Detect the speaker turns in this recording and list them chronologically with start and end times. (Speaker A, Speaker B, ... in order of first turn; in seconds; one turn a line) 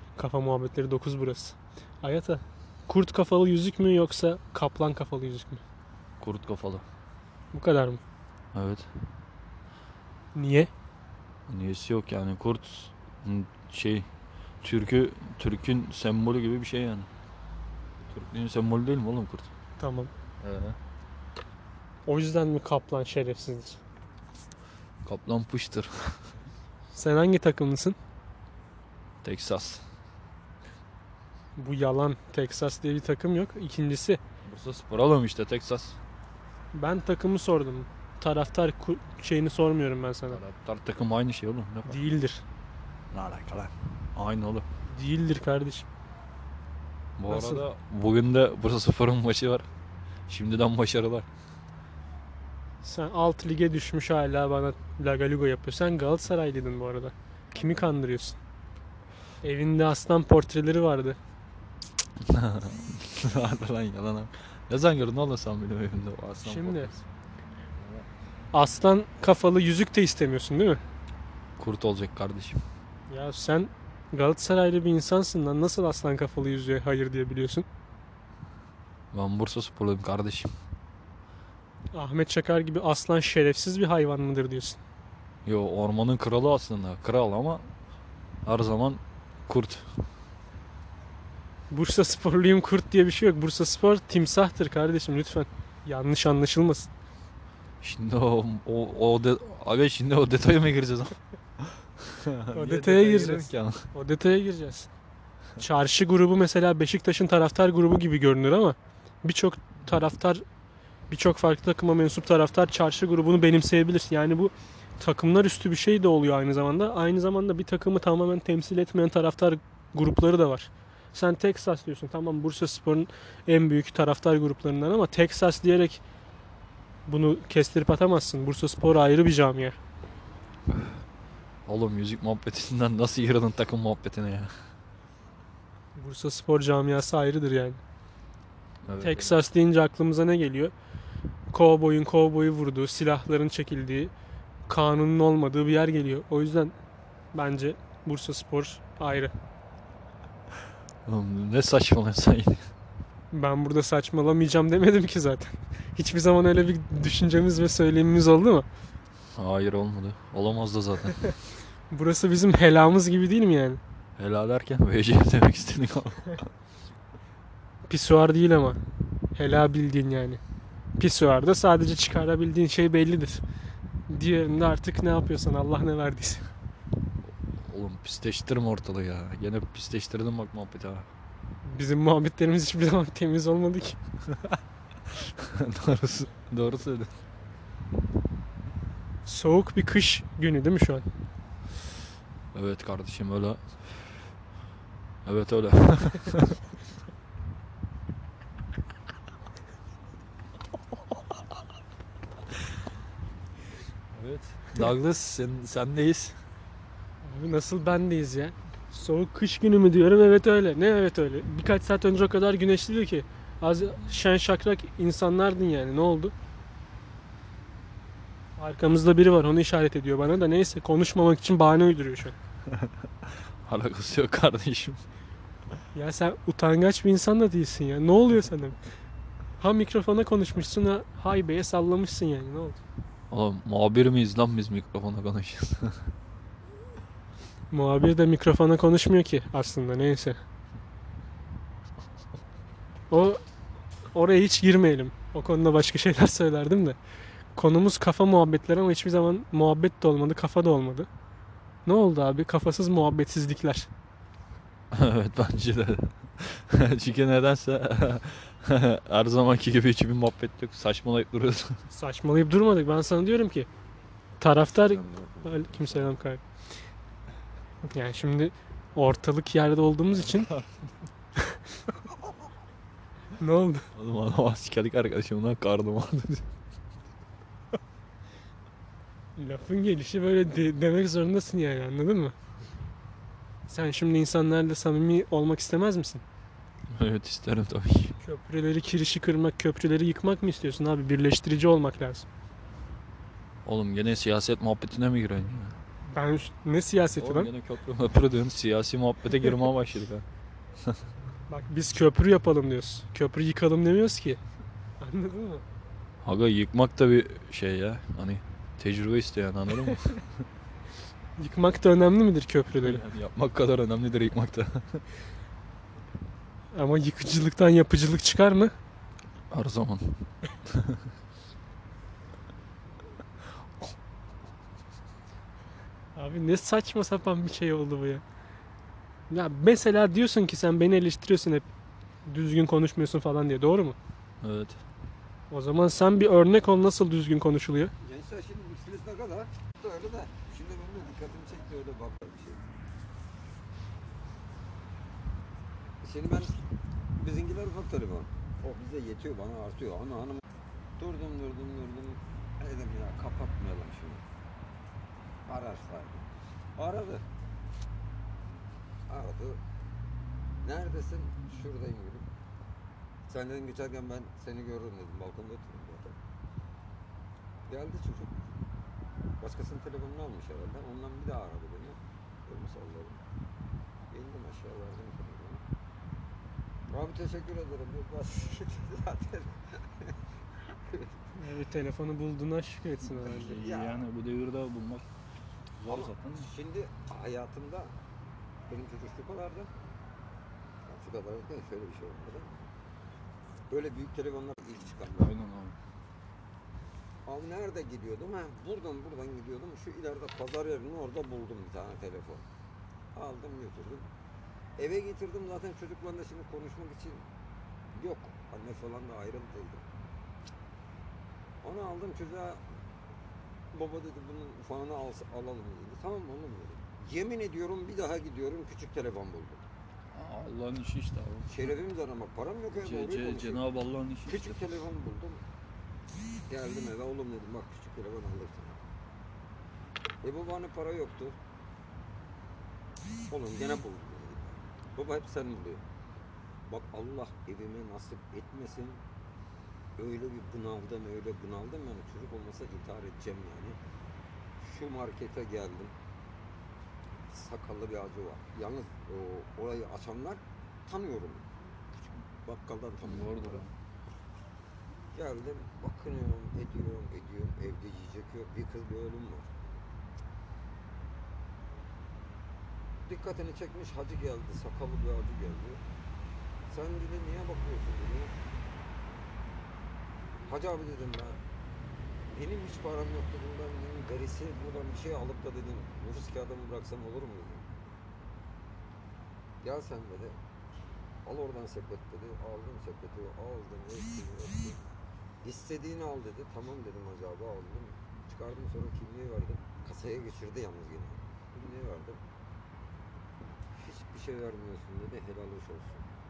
Speaker A: 0.2-5.6
Speaker B: 6.2-6.8
Speaker A: 7.5-8.0
Speaker B: 8.5-8.9
Speaker A: 10.3-10.7
Speaker B: 11.5-14.1
Speaker B: 14.6-17.1
Speaker B: 18.1-19.5
Speaker A: 19.8-20.1
Speaker B: 20.4-20.8
Speaker A: 22.1-23.8
Speaker B: 25.1-26.2
Speaker A: 26.9-28.0
Speaker B: 29.2-29.8
Speaker A: 31.6-34.2
Speaker B: 34.5-36.0
Speaker A: 36.7-40.4
Speaker B: 40.3-42.0
Speaker A: 41.9-42.4
Speaker B: 43.1-44.7
Speaker A: 44.9-45.9
Speaker B: 47.2-49.7
Speaker A: 47.3-47.6
Speaker B: 50.3-51.3
Speaker A: 52.8-58.4
Speaker A: 59.4-61.2
Speaker B: 62.3-67.0
Speaker A: 66.4-66.9
Speaker B: 67.8-68.1
Speaker A: 68.5-70.8
Speaker B: 71.6-72.6
Speaker A: 73.1-77.7
Speaker B: 79.1-80.5
Speaker A: 81.9-84.8
Speaker B: 85.5-87.7
Speaker B: 88.5-89.9
Speaker A: 91.7-96.9
Speaker B: 97.8-103.9
Speaker A: 102.5-104.9
Speaker A: 105.6-110.4
Speaker A: 111.1-126.0
Speaker A: 127.1-129.8
Speaker B: 131.7-134.6
Speaker A: 136.0-137.8
Speaker B: 138.8-139.4
Speaker A: 139.0-140.7
Speaker A: 141.5-144.1
Speaker A: 144.7-146.8
Speaker A: 147.3-149.3
Speaker B: 151.1-152.7
Speaker A: 153.3-158.7
Speaker B: 159.4-161.4
Speaker A: 161.9-163.8
Speaker B: 164.2-166.5
Speaker A: 167.9-168.8
Speaker A: 169.3-170.4
Speaker A: 171.0-173.4
Speaker A: 174.1-176.5
Speaker B: 177.3-181.1
Speaker A: 181.6-184.0
Speaker B: 185.4-187.1
Speaker A: 189.2-191.1
Speaker B: 192.5-194.1
Speaker B: 195.2-196.6
Speaker B: 204.1-206.4
Speaker A: 207.2-216.3
Speaker A: 218.6-222.4
Speaker B: 223.7-225.0
Speaker A: 225.9-228.8
Speaker A: 229.6-232.8
Speaker B: 233.3-236.0
Speaker A: 237.7-240.4
Speaker A: 243.1-243.4
Speaker A: 244.1-247.0
Speaker A: 247.6-251.1
Speaker A: 251.8-253.9
Speaker B: 254.9-261.8
Speaker A: 261.9-263.7
Speaker A: 264.4-266.4
Speaker C: 264.8-266.1
Speaker A: 267.9-270.5
Speaker B: 270.1-271.0
Speaker A: 273.4-273.9
Speaker B: 273.9-276.5
Speaker A: 279.4-282.4
Speaker A: 283.7-286.2
Speaker B: 286.9-288.1
Speaker A: 288.2-292.3
Speaker B: 293.6-295.8
Speaker A: 296.1-297.5
Speaker B: 297.2-300.2
Speaker A: 301.5-304.4
Speaker A: 305.0-305.6
Speaker B: 306.2-310.3
Speaker A: 311.4-313.0
Speaker B: 312.8-315.0
Speaker A: 316.7-318.7
Speaker B: 319.5-321.0
Speaker A: 326.1-328.2
Speaker A: 329.3-331.7
Speaker A: 332.3-334.0
Speaker B: 334.4-334.8
Speaker A: 335.5-337.9
Speaker C: 338.0-342.6
Speaker C: 346.0-346.6
Speaker C: 347.2-350.4
Speaker C: 351.0-354.2
Speaker C: 355.5-357.2
Speaker C: 359.1-359.6
Speaker C: 360.6-362.3
Speaker C: 363.3-366.2
Speaker C: 367.7-368.5
Speaker C: 369.4-373.2
Speaker C: 374.1-375.6
Speaker C: 376.9-381.4
Speaker A: 381.4-383.6
Speaker B: 383.1-385.1
Speaker C: 383.3-384.1
Speaker B: 385.8-386.5
Speaker C: 385.9-387.9
Speaker C: 388.7-389.7
Speaker C: 390.9-392.7
Speaker C: 393.7-395.4
Speaker B: 394.9-395.8
Speaker C: 397.3-402.4
Speaker C: 403.1-404.1
Speaker C: 404.8-407.2
Speaker C: 407.9-409.9
Speaker C: 411.6-412.6
Speaker C: 413.7-419.6
Speaker B: 420.1-421.7
Speaker C: 421.5-423.7
Speaker B: 422.7-424.8
Speaker C: 424.2-425.4
Speaker C: 426.5-428.8
Speaker C: 430.2-431.4
Speaker C: 433.3-435.8
Speaker C: 436.7-439.0
Speaker C: 440.0-443.8
Speaker C: 444.6-445.9
Speaker C: 447.3-453.6
Speaker B: 453.0-453.7
Speaker C: 455.1-459.5
Speaker C: 463.1-465.8
Speaker C: 466.7-468.3
Speaker C: 470.5-471.4
Speaker C: 472.3-477.7
Speaker C: 479.6-480.4
Speaker C: 481.2-484.8
Speaker C: 485.4-492.2
Speaker C: 493.7-496.1